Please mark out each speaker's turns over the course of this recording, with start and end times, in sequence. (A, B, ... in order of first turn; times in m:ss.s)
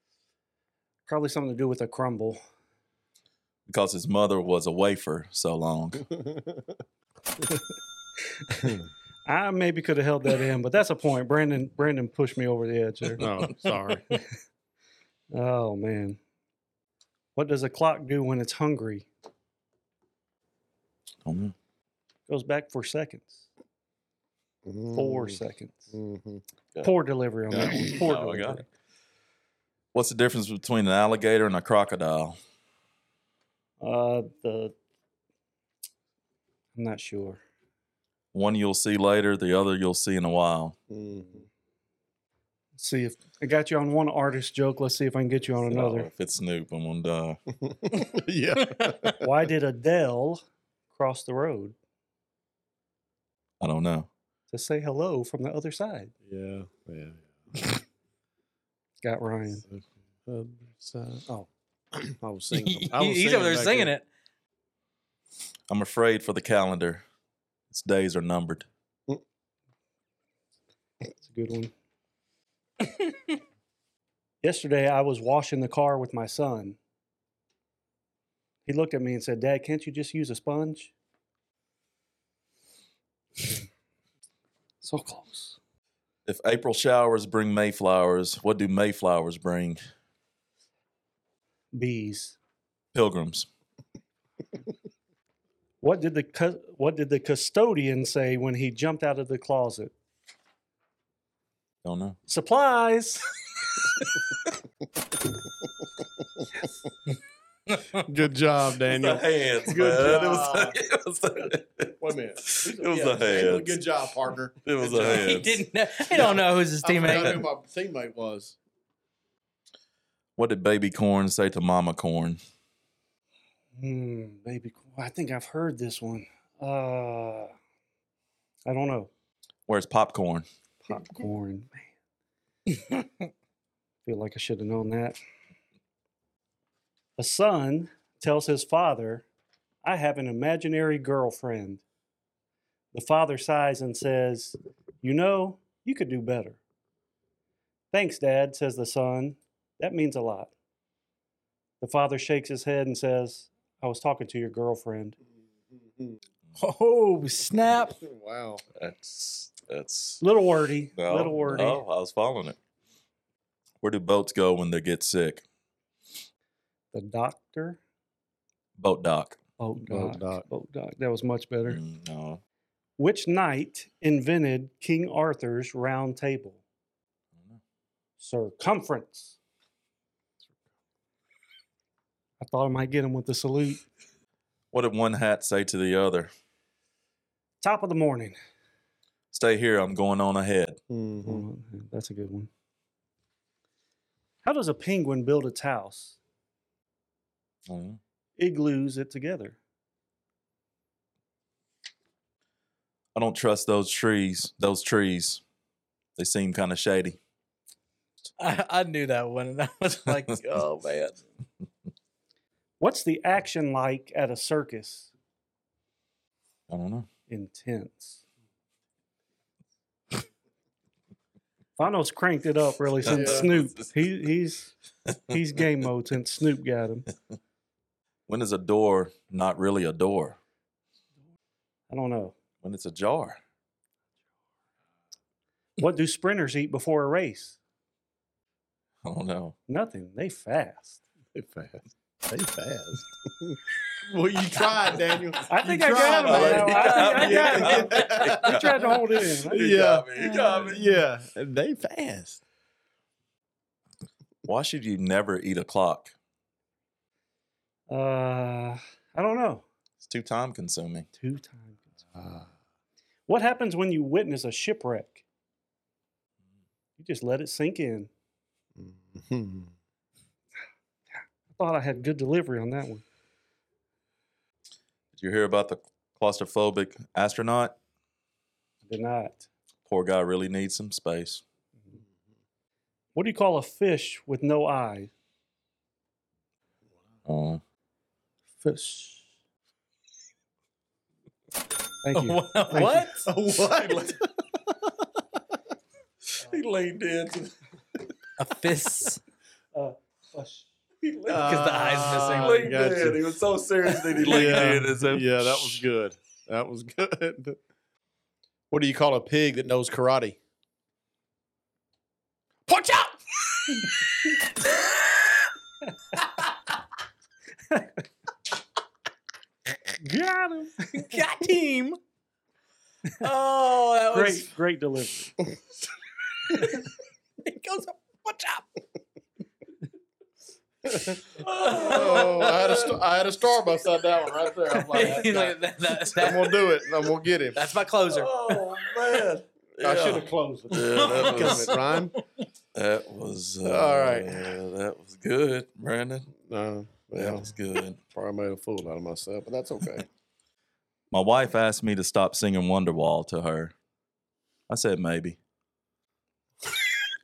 0:01.1-0:02.4 A
0:03.7-0:06.1 B
0:08.5-0:13.3 A
0:13.2-0:14.2 C
0:15.3-0:16.2 A
0:17.4-0:19.1 A
0:21.2-0:21.5 B
0:22.3-0:23.5 A
0:24.6-0:25.4 C
0:24.9-0:25.9 A
0:25.9-0:26.4 C
0:26.8-0:28.7 A
0:27.5-0:28.6 B
0:29.9-0:32.4 B
0:33.8-0:34.8 A
0:36.8-0:37.4 A
0:38.3-0:40.8 B
0:40.9-0:41.5 C
0:42.8-0:46.1 A
0:45.7-0:47.4 B
0:47.9-0:49.2 C
0:49.2-0:50.4 A
0:50.9-0:51.8 A
0:53.6-0:54.1 B
0:54.5-0:56.1 A
0:56.3-0:57.8 C
0:59.0-0:59.6 A
0:59.7-1:03.9 C
1:02.5-1:04.0 D
1:05.7-1:07.0 B
1:07.7-1:08.6 B
1:11.2-1:11.7 A
1:12.8-1:13.3 D
1:14.4-1:16.8 A
1:18.6-1:20.9 A
1:24.8-1:25.6 A
1:26.3-1:29.8 B
1:31.7-1:32.4 A
1:32.9-1:33.5 B
1:35.8-1:39.9 A
1:41.8-1:42.2 B
1:42.3-1:43.3 A
1:48.0-1:50.8 C
1:48.9-1:52.0 B
1:52.0-1:55.4 C
1:52.5-1:53.8 B
1:54.6-1:55.6 B
1:55.0-1:57.5 D
1:56.1-1:58.6 C
2:00.4-2:02.4 B
2:03.8-2:07.5 A
2:08.6-2:09.1 A
2:09.7-2:10.5 B
2:10.8-2:11.9 A
2:14.0-2:15.2 A
2:17.2-2:19.3 A
2:19.8-2:21.8 A
2:22.9-2:26.6 A
2:27.9-2:30.5 A
2:31.8-2:35.2 A
2:35.8-2:36.2 C
2:36.6-2:38.0 D
2:37.8-2:38.6 C
2:38.8-2:40.2 B
2:40.2-2:41.8 A
2:41.0-2:42.6 B
2:43.8-2:45.4 B
2:46.9-2:47.8 A
2:48.8-2:49.4 B
2:49.6-2:51.8 A
2:49.9-2:50.4 C
2:51.6-2:52.4 B
2:53.0-2:56.6 A
2:58.2-2:59.4 A
3:02.4-3:03.8 A
3:04.7-3:06.3 B
3:07.6-3:08.4 A
3:09.3-3:10.8 B
3:10.9-3:11.4 C
3:11.2-3:12.5 A
3:14.4-3:16.2 A
3:17.7-3:18.0 B
3:18.4-3:19.6 A
3:23.1-3:25.4 B
3:26.2-3:27.2 B
3:28.4-3:31.2 D
3:32.8-3:35.1 A
3:36.7-3:37.1 B
3:37.3-3:38.2 A
3:41.8-3:44.7 A
3:43.0-3:43.9 B
3:43.1-3:43.5 C
3:45.3-3:47.1 A
3:48.3-3:50.4 B
3:51.9-3:52.4 A
3:52.6-3:53.4 B
3:55.8-3:57.6 A
3:59.0-3:59.6 B
3:59.7-4:01.0 A
4:01.4-4:08.9 C
4:05.5-4:09.9 A
4:06.1-4:10.8 B
4:06.8-4:08.2 D
4:09.5-4:12.4 C
4:10.2-4:10.7 D
4:14.4-4:16.1 B
4:17.9-4:19.6 A
4:20.0-4:21.1 B
4:21.2-4:21.8 A
4:22.2-4:22.5 C
4:23.3-4:25.2 A
4:27.0-4:28.1 A
4:28.8-4:29.7 C
4:31.5-4:33.0 A
4:35.1-4:37.8 B
4:38.9-4:39.5 A
4:39.9-4:41.4 B
4:43.1-4:45.1 A
4:47.3-4:47.6 B
4:48.6-4:49.1 B
4:52.0-4:53.1 A
4:52.1-4:53.3 D
4:52.7-4:54.2 C
4:53.5-4:54.2 B
4:56.4-4:57.6 B
4:58.4-4:59.2 D
4:59.7-5:00.7 A
5:01.0-5:05.8 B
5:01.3-5:03.2 C
5:01.4-5:02.8 D
5:04.2-5:07.6 C
5:04.2-5:04.6 D
5:08.7-5:10.4 C
5:12.7-5:15.4 D
5:20.0-5:21.3 A
5:20.9-5:22.0 D
5:23.2-5:24.5 D
5:24.1-5:25.4 A
5:26.5-5:26.8 D
5:27.4-5:28.7 D
5:30.9-5:37.6 C
5:31.4-5:32.9 B
5:31.6-5:32.7 D
5:34.7-5:37.0 D
5:37.5-5:39.2 D
5:38.1-5:41.8 B
5:39.8-5:42.1 C
5:40.8-5:42.4 D
5:42.8-5:46.3 B
5:43.6-5:44.6 C
5:46.4-5:47.5 C
5:47.1-5:48.0 B
5:48.1-5:50.1 C
5:51.1-5:53.7 B
5:54.7-5:55.4 B